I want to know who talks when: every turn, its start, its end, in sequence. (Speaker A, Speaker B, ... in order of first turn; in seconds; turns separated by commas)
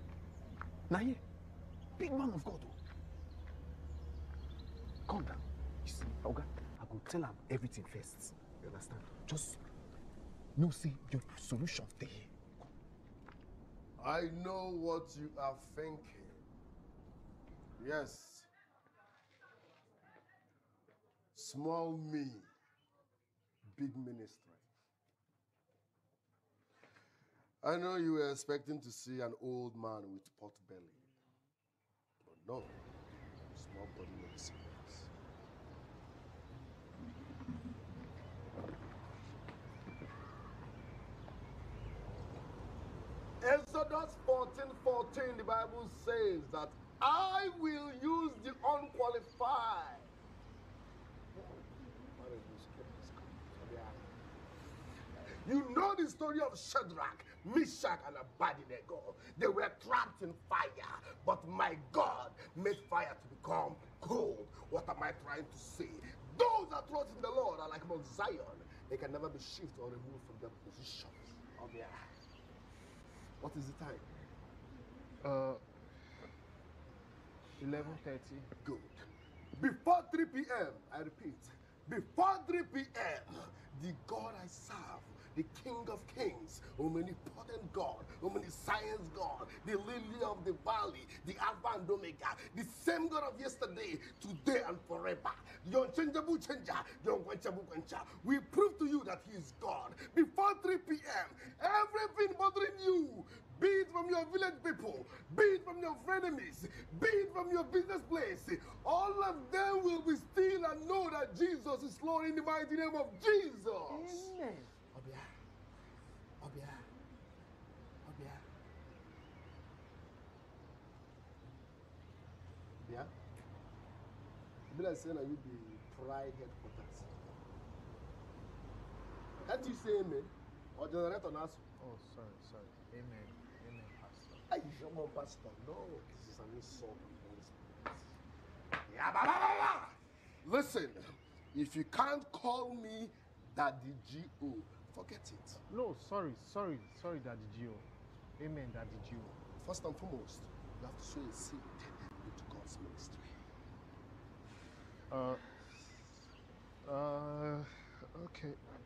Speaker A: 0.9-1.2, Speaker A: 2.0-2.7, Speaker A: 5.1-9.6, Speaker A: 10.6-12.3, Speaker B: 14.0-16.4, Speaker B: 17.8-18.5, Speaker B: 21.3-22.5, Speaker B: 23.7-24.6, Speaker B: 27.6-31.0, Speaker B: 32.2-32.8, Speaker B: 33.5-35.1, Speaker B: 43.4-50.1, Speaker B: 51.3-54.0, Speaker B: 55.1-72.1, Speaker B: 73.4-74.1, Speaker C: 75.2-75.6, Speaker C: 77.6-78.5, Speaker B: 77.7-78.0, Speaker B: 78.6-114.3, Speaker B: 114.9-115.3, Speaker B: 116.4-116.8, Speaker B: 118.0-118.4, Speaker B: 122.8-123.1, Speaker B: 124.7-127.3, Speaker B: 129.4-131.6, Speaker C: 131.8-134.4, Speaker B: 134.5-138.2, Speaker B: 138.8-145.6, Speaker C: 145.7-147.8, Speaker C: 148.4-149.3, Speaker B: 149.6-153.3, Speaker C: 155.1-155.9, Speaker C: 156.8-158.6